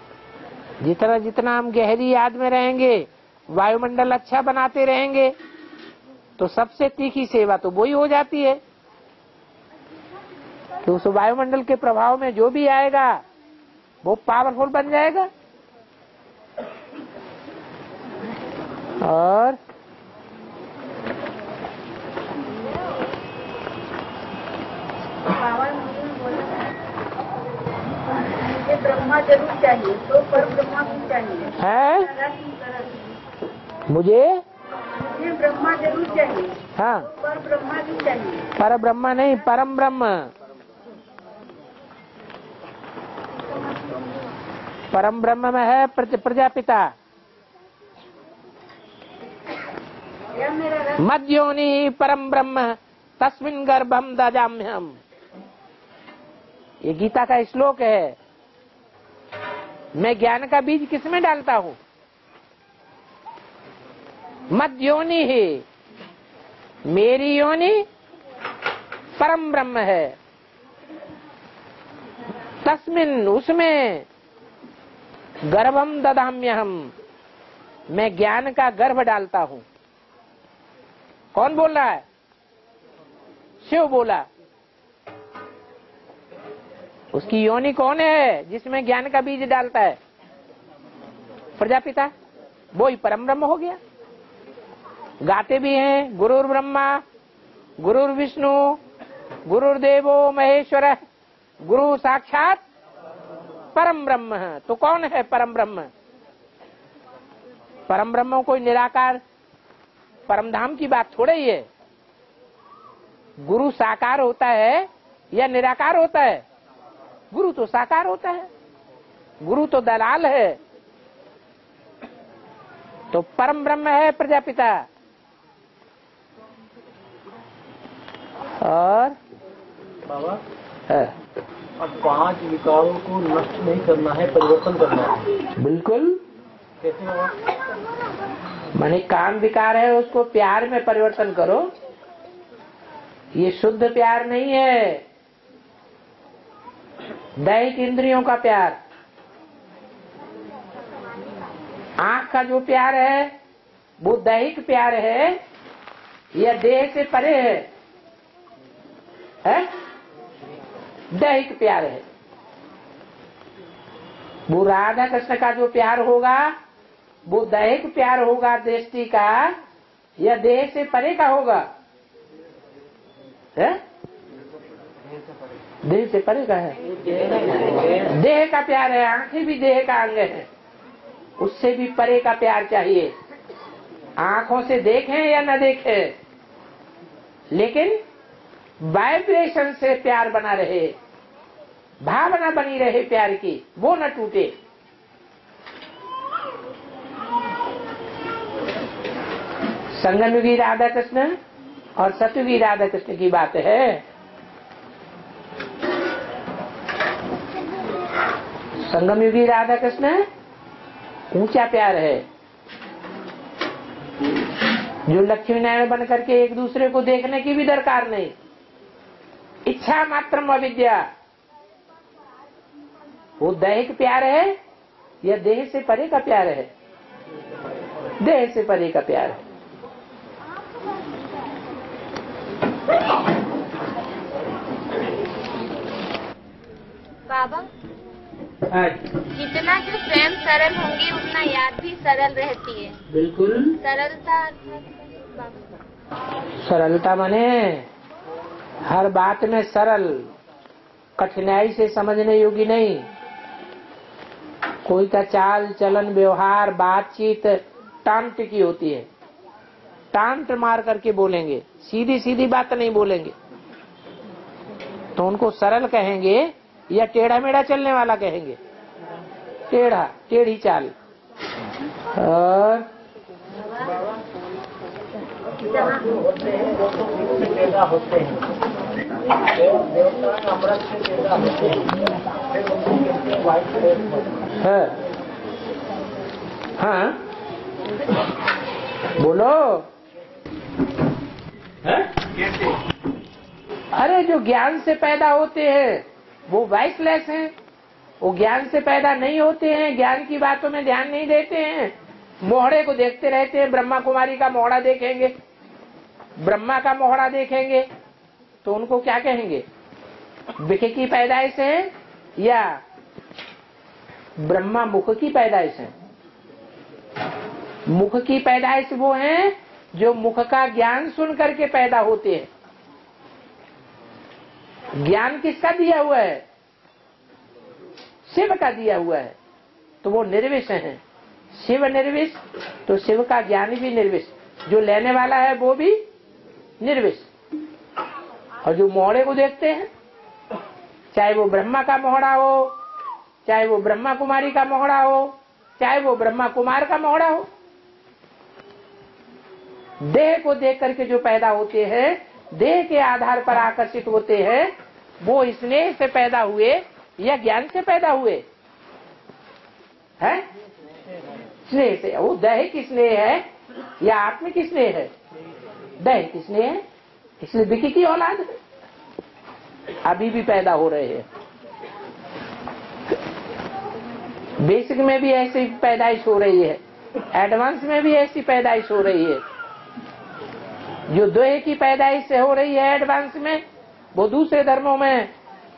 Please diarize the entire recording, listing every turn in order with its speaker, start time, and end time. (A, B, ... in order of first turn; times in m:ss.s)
0:00.8-0:05.3 A
0:06.4-0:08.6 A
0:10.8-0:13.2 A
0:14.0-0:15.3 A
0:19.0-0:19.6 A
0:25.2-0:26.7 B
0:28.4-0:33.0 B
0:31.6-0:32.1 A
0:33.9-0:34.4 A
0:35.1-0:38.5 B
0:36.8-0:37.1 A
0:38.6-0:40.3 A
0:44.9-0:46.9 A
0:50.3-0:51.0 B
0:51.0-0:55.0 A
0:56.8-0:58.2 A
1:00.0-1:01.8 A
1:04.5-1:05.6 A
1:06.9-1:07.8 A
1:09.2-1:10.2 A
1:12.6-1:14.0 A
1:15.5-1:16.9 A
1:17.9-1:19.6 A
1:21.3-1:22.0 A
1:23.6-1:24.2 A
1:27.1-1:30.0 A
1:31.6-1:32.1 A
1:32.7-1:33.8 A
1:35.2-1:37.0 A
1:37.8-1:38.8 A
1:39.5-1:41.0 A
1:41.6-1:42.6 A
1:43.7-1:45.9 A
1:47.9-1:49.2 A
1:50.3-1:51.6 A
1:53.4-1:56.4 A
1:57.3-1:58.5 A
1:59.4-2:00.6 A
2:03.1-2:04.8 A
2:08.6-2:09.2 A
2:10.0-2:10.4 C
2:11.8-2:15.3 C
2:15.6-2:16.2 A
2:16.8-2:17.3 C
2:18.8-2:21.7 A
2:23.4-2:25.0 A
2:27.4-2:28.8 A
2:32.0-2:33.3 A
2:34.0-2:35.4 A
2:36.3-2:37.7 A
2:41.1-2:42.0 A
2:44.5-2:46.5 A
2:47.3-2:49.5 A
2:50.2-2:51.7 A
2:55.8-2:56.8 A
2:58.0-3:00.5 A
3:01.4-3:03.1 A
3:04.2-3:06.1 A
3:07.5-3:08.0 A
3:08.8-3:10.9 A
3:12.0-3:14.5 A
3:19.9-3:21.4 A
3:22.0-3:24.0 A
3:28.8-3:30.2 A
3:31.3-3:32.2 A
3:35.1-3:38.3 A
3:39.6-3:41.1 A
3:43.4-3:44.6 A
3:45.2-3:46.7 A
3:48.2-3:49.4 A
3:57.3-3:57.7 D
3:58.7-3:59.0 A
3:59.3-4:03.0 D
4:03.1-4:03.8 A
4:03.8-4:04.8 D
4:06.6-4:07.8 A
4:08.8-4:10.3 A
4:11.2-4:13.1 A
4:14.8-4:19.1 A
4:20.1-4:23.3 A
4:25.2-4:28.6 A
4:29.7-4:30.9 A
4:32.2-4:32.8 A
4:35.6-4:38.4 C
4:39.5-4:44.4 C
4:44.6-4:44.9 A
4:46.8-4:47.2 A
4:49.2-4:49.8 A
4:53.9-4:57.5 A
4:58.2-5:05.3 A
5:06.4-5:07.9 A
5:08.6-5:09.6 A
5:10.6-5:12.8 A
5:14.4-5:15.9 A
5:17.9-5:22.5 A
5:25.0-5:26.4 A
5:28.3-5:29.3 A
5:30.0-5:31.0 A
5:31.5-5:36.0 A
5:36.8-5:37.3 A
5:38.6-5:39.9 A
5:41.1-5:42.7 A
5:43.4-5:47.5 A
5:50.0-5:58.4 A
6:01.7-6:03.4 A
6:04.0-6:05.1 A
6:06.0-6:06.8 A
6:07.4-6:08.4 A
6:10.0-6:11.2 A
6:14.6-6:16.8 A
6:17.3-6:19.4 A
6:21.1-6:23.6 A
6:24.1-6:25.3 A